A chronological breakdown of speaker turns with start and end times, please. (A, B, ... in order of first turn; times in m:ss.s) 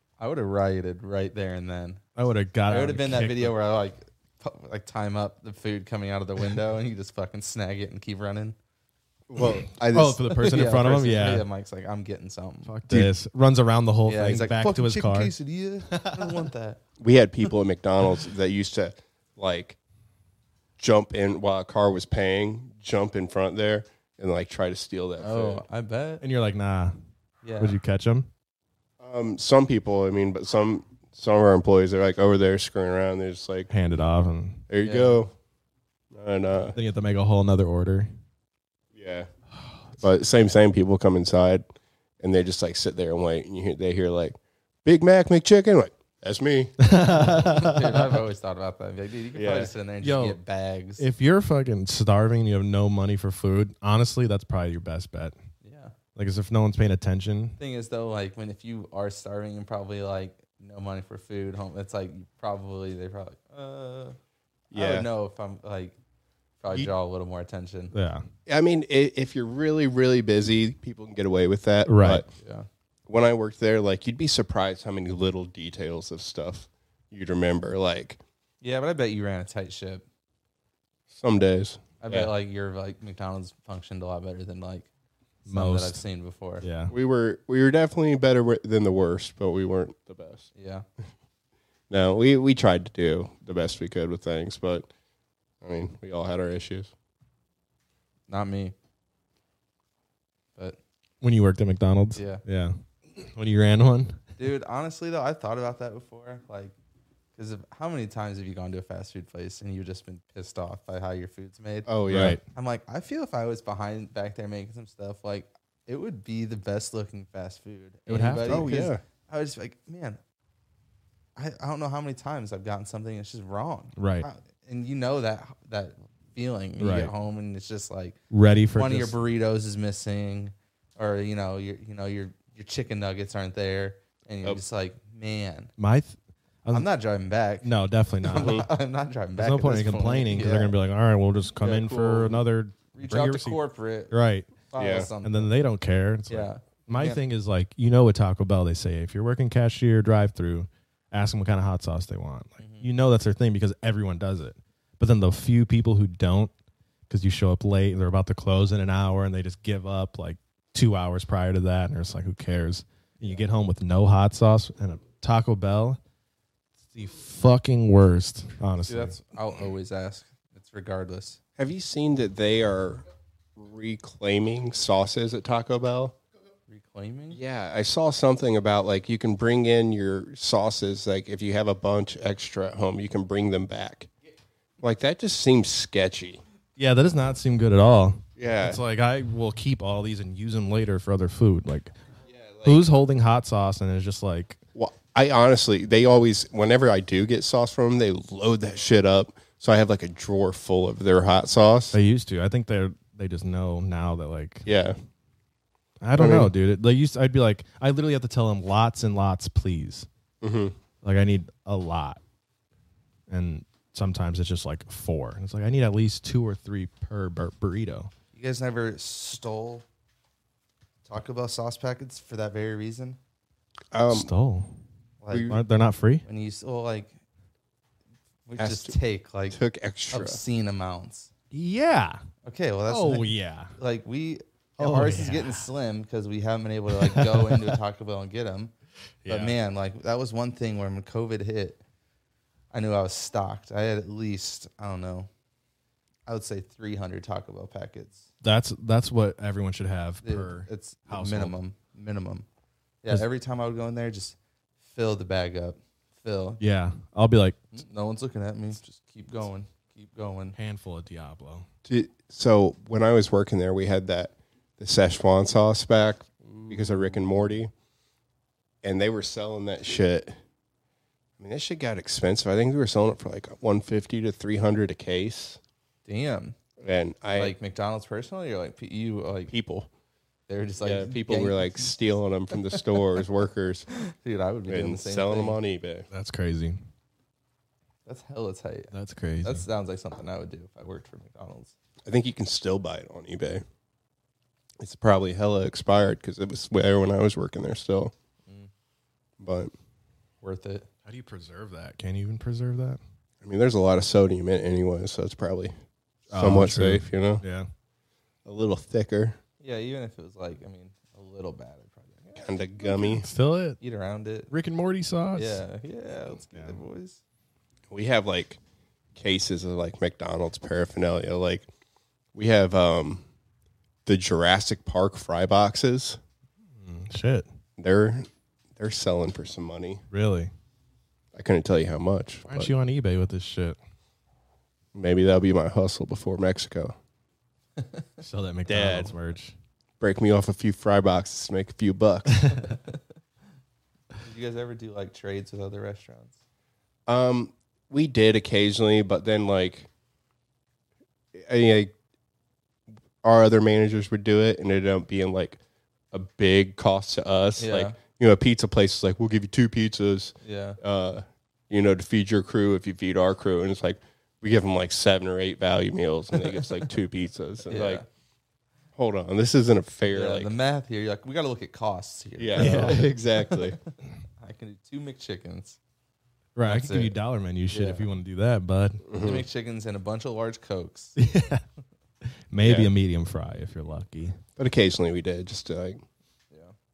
0:00.2-0:02.0 A
0:02.2-0:03.5 B
0:02.7-0:08.6 A
0:09.3-0:10.2 C
0:09.9-0:11.4 B
0:10.3-0:12.8 A
0:12.6-0:15.3 B
0:14.0-0:16.8 A
0:15.9-0:16.5 B
0:17.0-0:19.8 C
0:20.8-0:25.6 C
0:25.2-0:26.2 A
0:26.2-0:26.9 B
0:27.4-0:27.8 A
0:27.6-0:28.3 B
0:29.0-0:33.7 C
0:33.7-0:34.6 B
0:34.7-0:35.3 C
0:34.8-0:35.2 A
0:36.1-0:36.8 C
0:36.7-0:38.1 B
0:38.9-0:39.3 C
0:40.0-0:41.6 C
0:42.2-0:46.8 C
0:46.8-0:48.2 B
0:47.1-0:51.0 A
0:49.3-0:49.7 C
0:50.0-0:50.4 B
0:51.0-0:55.3 B
0:55.6-0:55.9 A
0:56.2-0:57.6 B
0:57.6-1:04.2 A
1:04.7-1:05.1 C
1:04.7-1:06.0 A
1:06.6-1:07.9 A
1:07.9-1:08.2 B
1:08.5-1:12.2 C
1:11.8-1:12.2 B
1:12.3-1:12.7 A
1:13.1-1:18.2 C
1:18.6-1:20.0 A
1:21.1-1:22.3 C
1:22.0-1:24.9 A
1:25.5-1:26.0 B
1:25.5-1:26.6 A
1:26.6-1:26.9 B
1:26.9-1:30.5 C
1:30.5-1:30.8 A
1:31.9-1:34.9 C
1:35.6-1:36.9 C
1:38.3-1:38.7 A
1:41.2-1:44.2 B
1:42.1-1:42.4 A
1:44.4-1:46.7 A
1:47.4-1:51.9 A
1:51.9-1:52.4 C
1:52.1-1:52.4 B
1:52.5-2:00.2 A
1:58.1-1:58.7 B
1:58.4-1:59.0 C
2:01.4-2:08.2 A
2:04.0-2:04.3 B
2:06.8-2:07.1 B
2:08.3-2:09.2 B
2:08.7-2:15.7 A
2:15.8-2:16.9 B
2:16.7-2:17.7 A
2:17.6-2:18.7 B
2:18.2-2:20.7 A
2:18.4-2:18.6 C
2:19.4-2:23.6 B
2:21.6-2:22.4 A
2:22.9-2:24.1 A
2:24.1-2:24.5 B
2:24.6-2:25.5 A
2:24.8-2:25.1 C
2:25.2-2:36.5 B
2:26.3-2:27.2 A
2:32.6-2:32.9 A
2:37.1-2:46.0 B
2:46.9-2:49.2 B
2:48.9-2:51.4 A
2:51.6-2:53.0 C
2:53.6-2:56.2 C
2:56.7-2:57.4 A
2:57.3-3:04.1 C
3:04.8-3:06.4 C
3:06.8-3:11.9 B
3:08.4-3:08.8 C
3:12.3-3:13.0 C
3:12.6-3:14.6 B
3:14.7-3:22.0 C
3:21.9-3:24.6 B
3:24.6-3:25.0 C
3:26.0-3:30.1 B
3:26.2-3:26.5 C
3:30.4-3:30.8 C
3:31.0-3:32.2 B
3:33.3-3:38.1 B
3:38.3-3:39.8 A
3:41.0-3:43.2 A
3:43.9-3:44.3 C
3:44.1-3:44.7 B
3:45.2-3:45.6 A
3:45.3-3:45.6 C
3:45.5-3:46.2 B
3:46.2-3:47.2 A
3:48.4-3:49.6 A
3:48.6-3:49.0 C
3:49.5-3:50.4 C
3:50.1-3:51.3 A
3:51.5-3:52.2 B
3:52.4-3:58.7 A
3:52.9-3:53.7 B
3:54.8-3:55.7 B
3:57.0-3:57.8 B
3:59.2-3:59.5 B
3:59.3-4:01.8 A
4:02.7-4:05.3 A
4:06.2-4:08.3 A
4:08.4-4:11.5 B
4:10.2-4:12.4 A
4:13.0-4:16.6 A
4:16.6-4:17.6 B
4:17.7-4:20.6 A
4:20.6-4:21.6 B
4:21.8-4:27.7 C
4:28.8-4:30.4 C
4:31.4-4:35.6 C
4:36.0-4:36.6 A
4:36.8-4:37.5 C
4:37.3-4:39.5 A
4:39.5-4:39.9 C
4:40.5-4:42.0 A
4:40.8-4:43.8 C
4:43.9-4:45.6 A
4:44.7-4:46.1 C
4:46.1-4:46.8 B
4:48.0-4:48.9 A
4:48.9-4:49.6 B
4:49.4-4:51.7 A
4:52.0-4:53.6 C
4:54.8-4:58.1 C
4:59.4-4:59.7 C
5:00.4-5:00.9 A
5:01.0-5:03.0 B
5:03.4-5:05.7 C
5:06.3-5:07.4 C
5:06.3-5:07.7 B
5:08.4-5:09.4 C
5:09.6-5:12.6 A
5:12.4-5:13.3 C
5:13.0-5:13.8 B
5:13.8-5:14.5 A
5:14.5-5:15.6 B
5:15.3-5:17.2 A
5:16.5-5:16.8 B
5:17.9-5:18.6 C
5:19.1-5:21.7 C
5:22.3-5:23.2 C
5:24.0-5:26.2 C
5:26.8-5:27.4 B
5:27.8-5:30.0 C
5:30.1-5:30.5 B
5:31.3-5:32.7 C
5:32.5-5:33.8 B
5:34.9-5:37.0 C
5:38.2-5:39.5 B
5:38.7-5:39.1 C
5:40.0-5:42.6 C
5:42.6-5:42.9 A
5:44.2-5:46.4 A
5:47.1-5:49.9 C
5:51.3-5:51.9 C
5:53.2-5:55.6 C
5:56.1-6:08.0 C
5:57.6-5:58.0 A
6:00.4-6:00.8 A
6:07.7-6:08.1 A
6:09.0-6:10.5 C
6:10.1-6:13.7 A
6:12.4-6:13.8 C
6:12.6-6:13.0 B
6:14.4-6:15.8 A
6:16.6-6:19.0 B
6:16.6-6:17.1 A
6:17.7-6:18.1 A
6:19.1-6:19.4 C
6:19.2-6:21.2 A
6:21.2-6:21.6 B
6:22.5-6:24.4 B
6:22.6-6:22.9 C
6:24.6-6:26.0 C